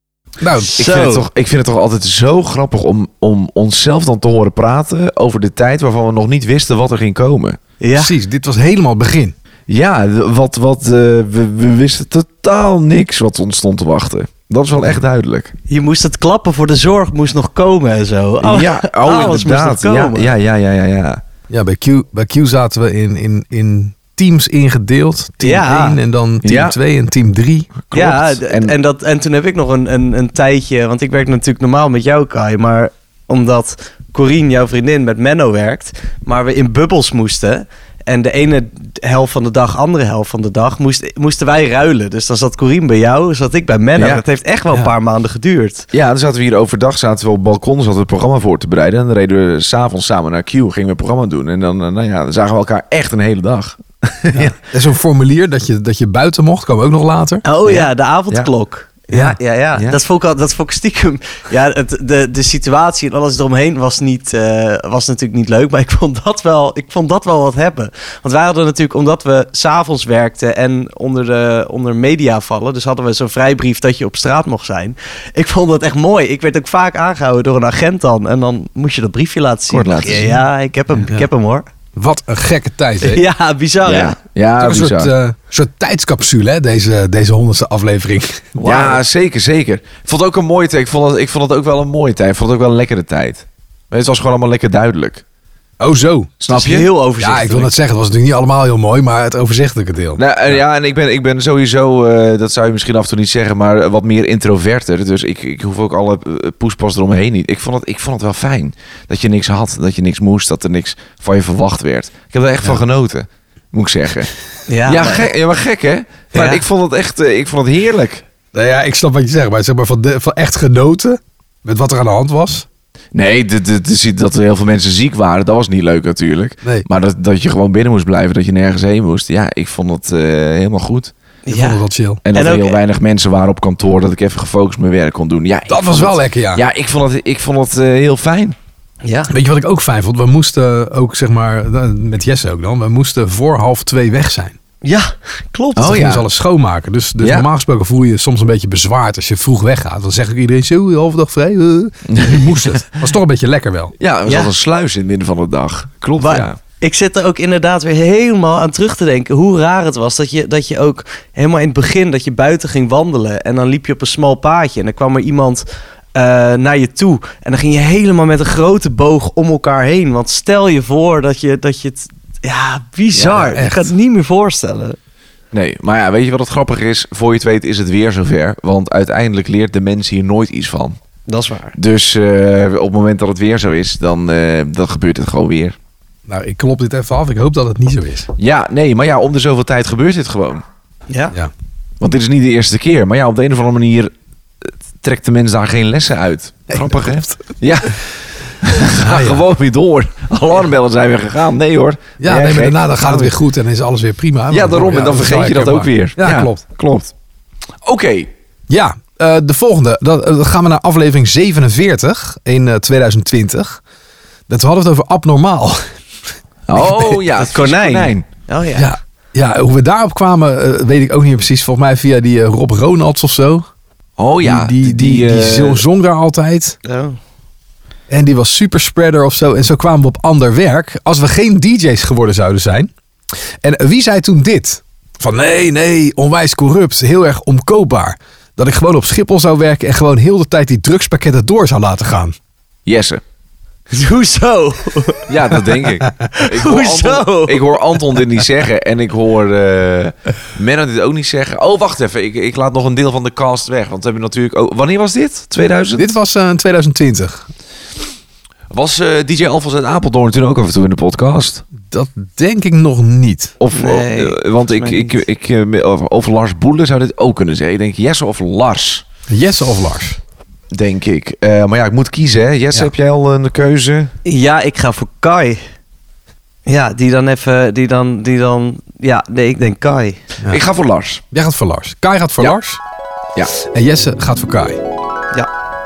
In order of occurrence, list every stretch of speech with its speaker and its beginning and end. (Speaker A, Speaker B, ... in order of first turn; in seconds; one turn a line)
Speaker A: 0.4-0.8
Speaker B: 0.8-1.3
Speaker C: 0.8-7.6
Speaker B: 7.8-8.1
Speaker A: 8.0-9.3
Speaker C: 9.7-15.5
Speaker B: 15.7-20.3
Speaker C: 18.4-21.2
Speaker A: 21.5-27.7
Speaker B: 25.4-26.0
Speaker C: 26.4-26.8
Speaker C: 27.9-28.7
Speaker B: 27.9-45.9
Speaker C: 44.0-44.2
Speaker C: 45.9-54.5
Speaker A: 54.3-57.4
Speaker B: 57.5-81.7
Speaker C: 57.6-58.5
Speaker A: 59.1-59.4
Speaker C: 59.7-60.0
Speaker C: 79.7-80.4
Speaker A: 82.0-83.3
Speaker B: 83.0-84.2
Speaker C: 83.8-85.1
Speaker A: 84.6-88.6
Speaker B: 88.6-89.0
Speaker C: 88.6-95.2
Speaker A: 95.8-96.4
Speaker C: 96.4-96.9
Speaker B: 96.5-97.7
Speaker A: 97.2-100.6
Speaker C: 100.2-114.3
Speaker B: 114.7-115.3
Speaker C: 114.9-118.2
Speaker B: 116.3-116.6
Speaker A: 118.5-122.7
Speaker C: 123.1-131.1
Speaker B: 131.5-132.8
Speaker A: 131.5-132.2
Speaker C: 132.2-138.6
Speaker A: 135.7-136.6
Speaker B: 139.0-139.3
Speaker A: 139.3-144.6
Speaker B: 144.8-146.0
Speaker C: 145.8-146.3
Speaker A: 145.8-153.9
Speaker C: 147.2-147.5
Speaker C: 152.1-152.8
Speaker C: 154.0-156.6
Speaker B: 154.3-154.5
Speaker B: 156.2-175.0
Speaker C: 173.1-173.7
Speaker A: 173.5-173.9
Speaker C: 175.5-181.0
Speaker B: 181.3-181.8
Speaker C: 181.8-185.8
Speaker A: 186.3-188.3
Speaker C: 188.4-190.6
Speaker B: 191.1-191.4
Speaker C: 192.0-203.3
Speaker A: 196.7-197.4
Speaker A: 199.0-199.4
Speaker A: 202.2-206.6
Speaker C: 204.5-207.1
Speaker C: 207.8-208.3
Speaker A: 208.7-213.8
Speaker A: 214.5-215.8
Speaker C: 216.7-218.3
Speaker A: 216.8-217.2
Speaker B: 217.4-218.9
Speaker A: 218.8-223.7
Speaker C: 224.2-225.8
Speaker A: 224.4-226.8
Speaker B: 226.8-227.2
Speaker A: 228.1-232.9
Speaker A: 233.6-242.3
Speaker C: 242.9-243.2
Speaker B: 243.9-245.3
Speaker C: 245.3-256.1
Speaker B: 246.3-247.8
Speaker A: 256.0-257.5
Speaker C: 258.7-261.6
Speaker A: 261.8-263.5
Speaker C: 263.6-269.1
Speaker B: 263.8-265.2
Speaker A: 269.3-270.2
Speaker C: 270.7-274.1
Speaker B: 274.2-275.6
Speaker B: 276.7-280.2
Speaker C: 280.5-281.2
Speaker A: 281.3-282.8
Speaker A: 283.6-284.8